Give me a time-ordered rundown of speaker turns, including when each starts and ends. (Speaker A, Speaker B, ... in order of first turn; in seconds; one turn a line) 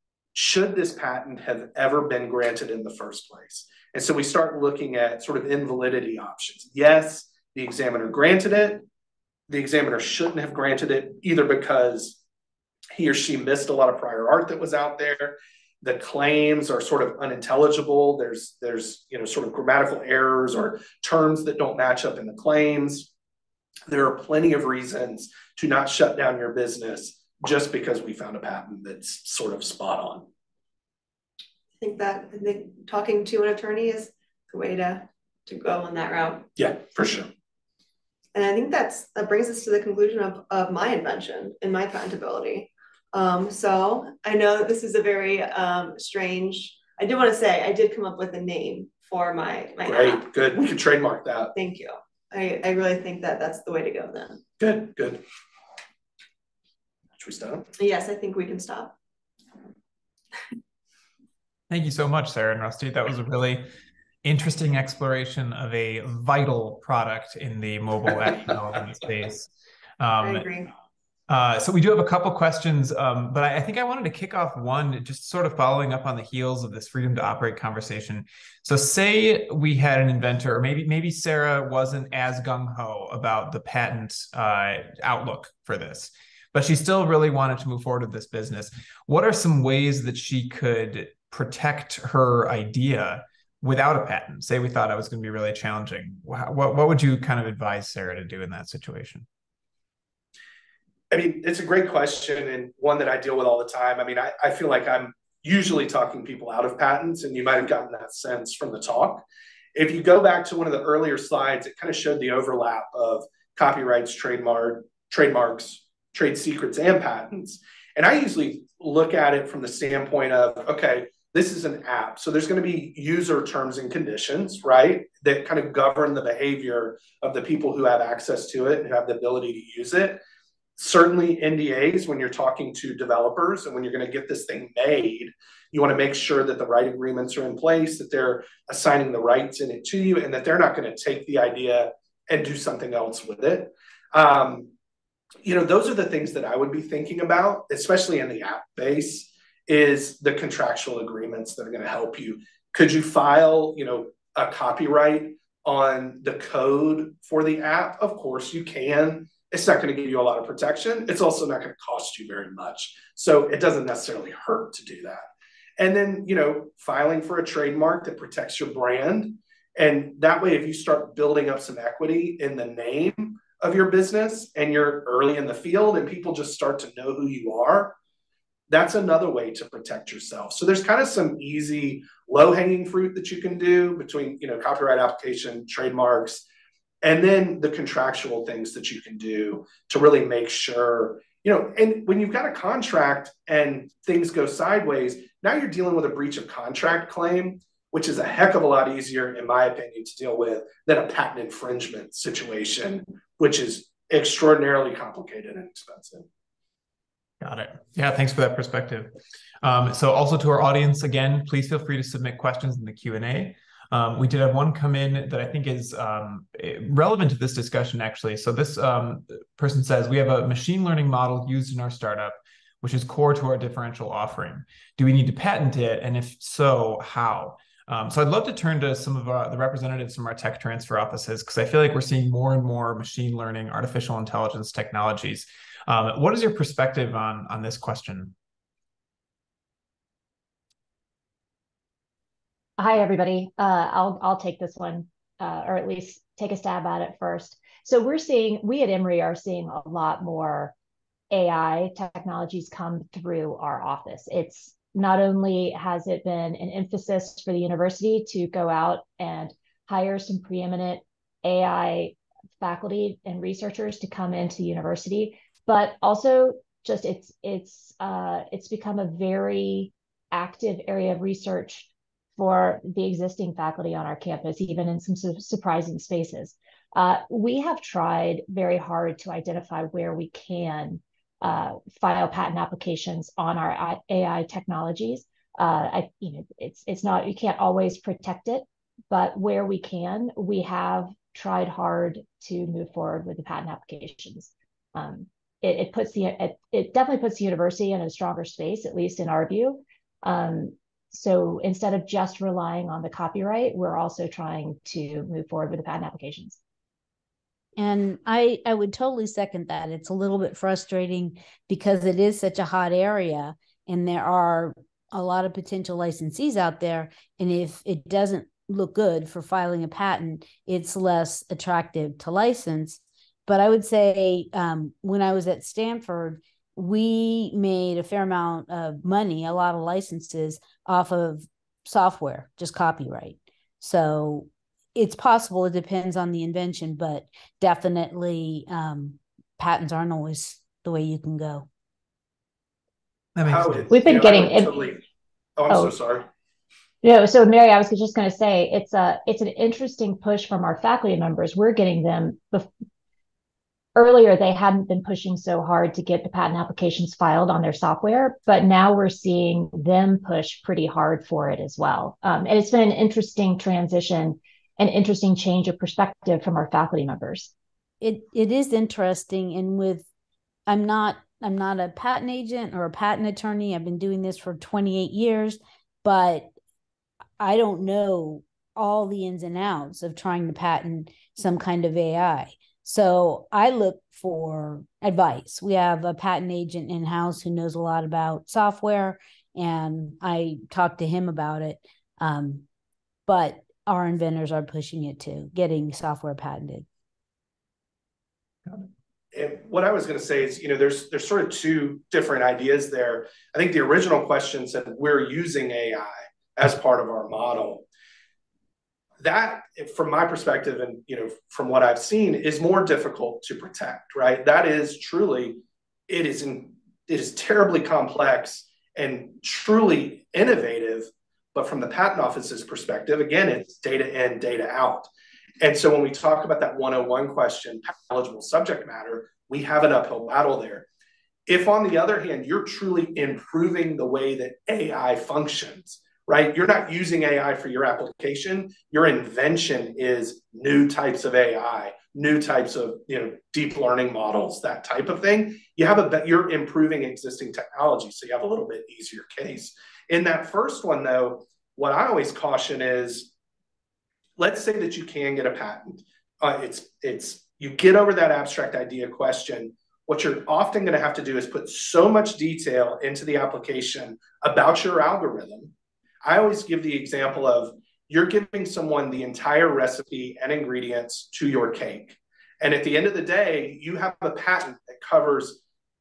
Speaker A: 0.3-8.8
Speaker A: 9.5-12.2
Speaker A: 12.9-23.1
Speaker A: 23.9-30.3
Speaker B: 31.8-36.5
Speaker A: 36.6-37.3
Speaker B: 38.3-50.2
Speaker A: 49.9-51.5
Speaker B: 51.5-54.4
Speaker A: 54.6-55.2
Speaker A: 57.2-57.7
Speaker B: 57.8-58.9
Speaker C: 61.7-63.7
Speaker C: 64.2-70.5
Speaker B: 70.2-70.7
Speaker C: 71.3-99.3
Speaker A: 101.1-130.2
Speaker A: 130.8-144.7
Speaker A: 145.4-178.0
Speaker A: 178.7-186.5
Speaker A: 187.0-206.3
Speaker C: 207.4-238.3
Speaker D: 242.8-250.7
Speaker D: 251.3-306.6
Speaker E: 307.8-341.7
Speaker C: 343.4-343.9
Speaker A: 343.4-345.0
Speaker D: 343.9-344.8
Speaker A: 345.6-346.3
Speaker D: 347.0-352.7
Speaker D: 353.9-367.5
Speaker E: 368.0-370.1
Speaker E: 370.7-376.5
Speaker E: 377.4-392.6
Speaker E: 393.3-396.9
Speaker A: 399.3-407.9
Speaker A: 409.2-425.1
Speaker A: 425.6-430.9
Speaker A: 431.5-453.3
Speaker A: 454.4-475.6